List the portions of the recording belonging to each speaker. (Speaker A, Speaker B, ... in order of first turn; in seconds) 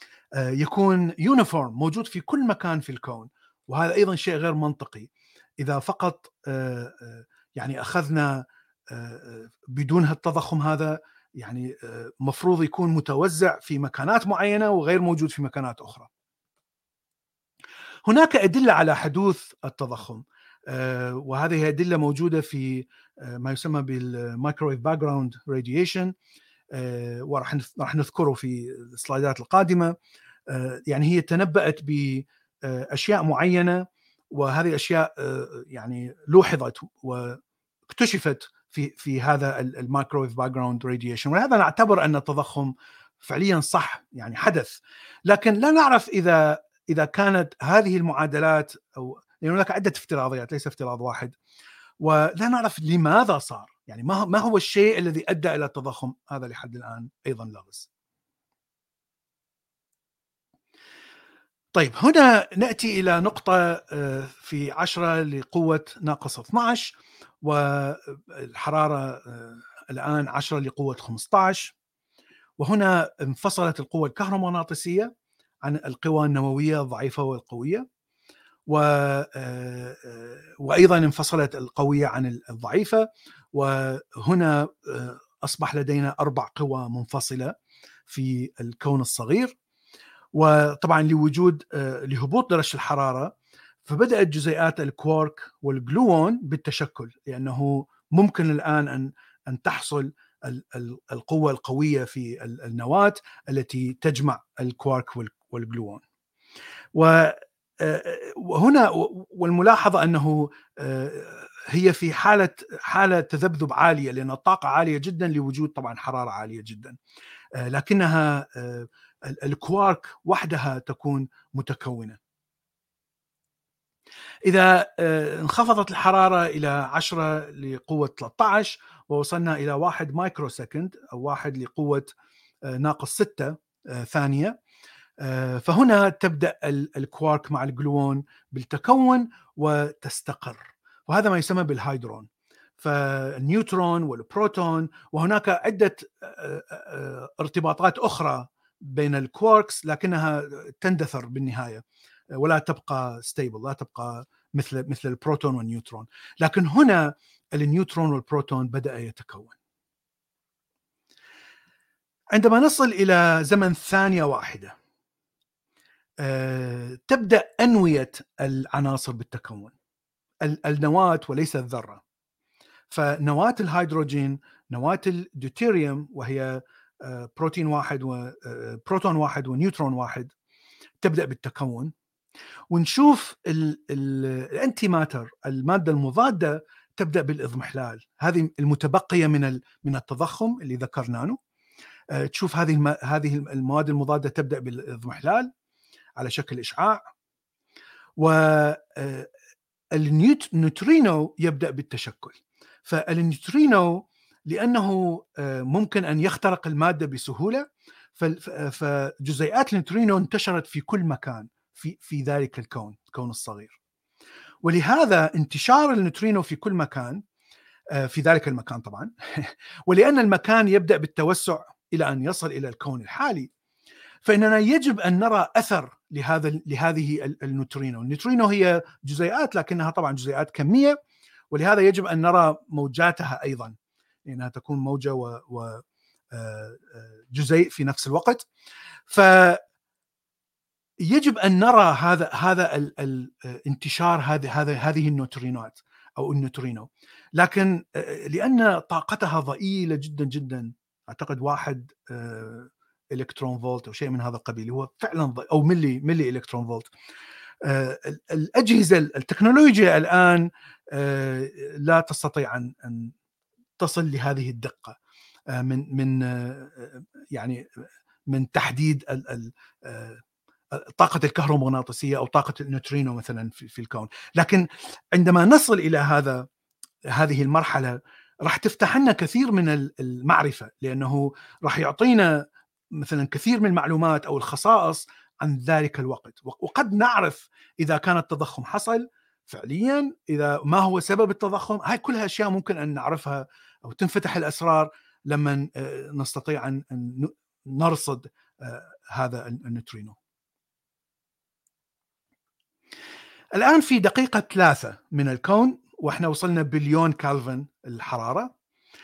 Speaker A: 0.4-5.1, 5.6-16.1, 18.1-26.1, 26.7-29.9, 30.5-51.4, 52.0-57.9, 61.7-71.7, 72.6-75.1, 75.6-77.8, 78.7-87.5, 88.1-89.5, 90.3-93.3, 93.8-106.0, 107.0-117.0, 117.6-122.2, 124.5-132.1, 132.7-134.6, 135.2-142.3, 142.8-151.8, 152.3-159.5, 162.3-164.7, 166.2-169.7, 170.4-172.0, 172.9-180.3, 181.0-181.9, 182.7-191.4, 192.1-195.5, 196.2-197.0, 198.2-199.3, 199.9-213.8, 214.6-217.2, 217.9-223.5, 224.2-230.9, 231.5-238.4, 239.1-239.6, 241.0-256.9, 257.6-263.1, 263.8-265.0, 265.5-267.6, 268.3-270.2, 270.8-274.6, 275.1-276.4, 277.1-282.3, 283.0-300.2, 303.5-308.5